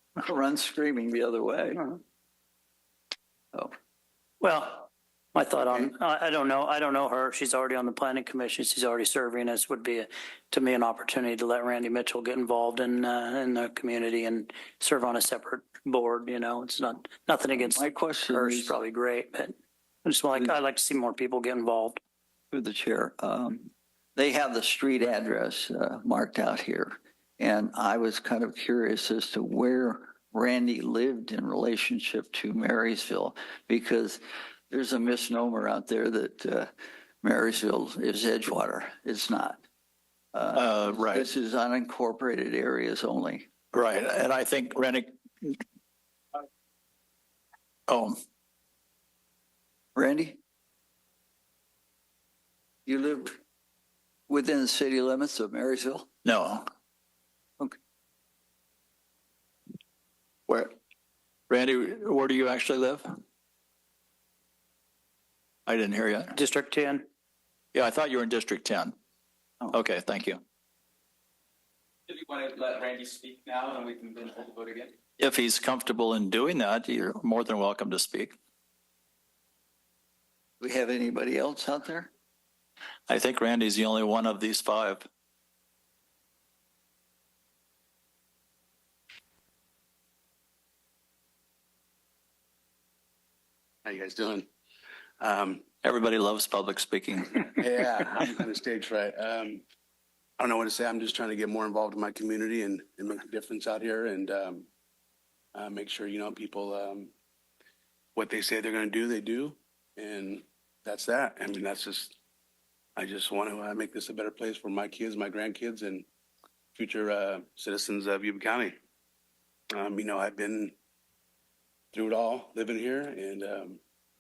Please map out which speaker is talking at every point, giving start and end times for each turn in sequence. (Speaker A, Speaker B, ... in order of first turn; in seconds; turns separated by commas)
Speaker A: 0.2-1.9, Speaker B: 4.4-22.0, Speaker A: 17.6-18.8, Speaker A: 22.5-36.7, Speaker A: 37.2-39.6, Speaker A: 40.3-43.5, Speaker C: 40.5-41.3, Speaker C: 43.7-45.6, Speaker C: 47.9-48.2, Speaker A: 50.0-50.4, Speaker A: 52.9-53.4, Speaker A: 54.3-56.1, Speaker C: 56.2-56.7, Speaker C: 60.5-60.7, Speaker C: 61.5-63.2, Speaker C: 65.7-66.4, Speaker B: 66.3-67.0, Speaker C: 67.7-69.0, Speaker C: 69.7-70.4, Speaker D: 72.1-74.9, Speaker C: 75.2-78.3, Speaker A: 80.6-82.1, Speaker C: 83.1-85.0, Speaker E: 93.8-94.5, Speaker E: 95.2-95.6, Speaker C: 95.8-97.4, Speaker E: 97.6-99.6, Speaker E: 100.4-104.7, Speaker E: 105.5-107.1, Speaker E: 108.2-112.2, Speaker E: 113.0-116.1, Speaker E: 116.8-118.8, Speaker E: 119.7-120.8, Speaker E: 121.9-123.8